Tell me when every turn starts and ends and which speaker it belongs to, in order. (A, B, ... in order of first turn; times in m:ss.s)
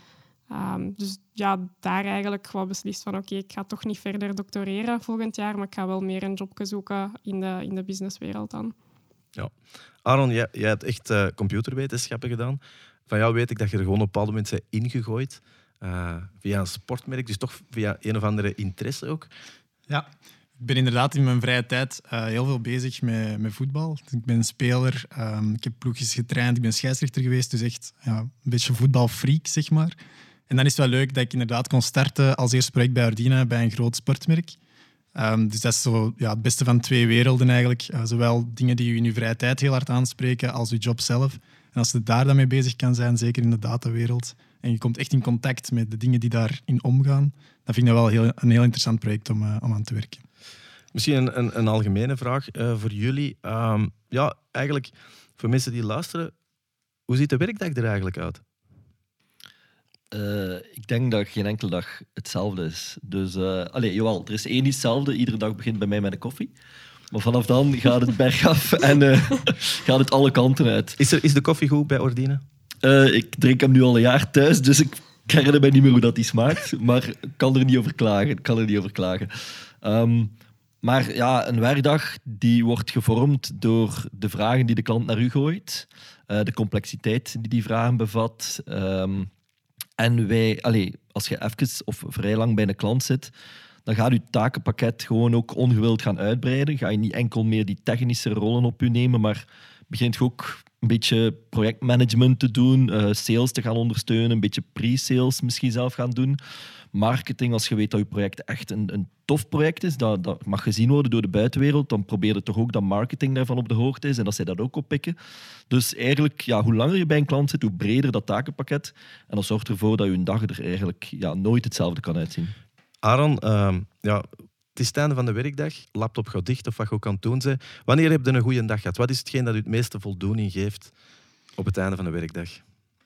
0:00.5-0:08.7 A
0:10.0-0:19.3 B
0:20.6-0:30.0 C
0:30.5-0:34.6 C
0:35.1-0:50.2 C
0:50.9-0:56.3 B
0:57.1-0:58.4 B
1:00.1-1:06.5 D
1:07.1-1:11.0 D
1:11.0-1:12.4 B
1:12.8-1:19.3 D
1:19.8-1:29.3 D
1:30.0-1:33.3 D
1:33.8-1:46.4 D
1:46.9-1:55.1 D
1:55.7-2:02.5 D
2:03.0-2:10.9 B
2:11.6-2:12.6 B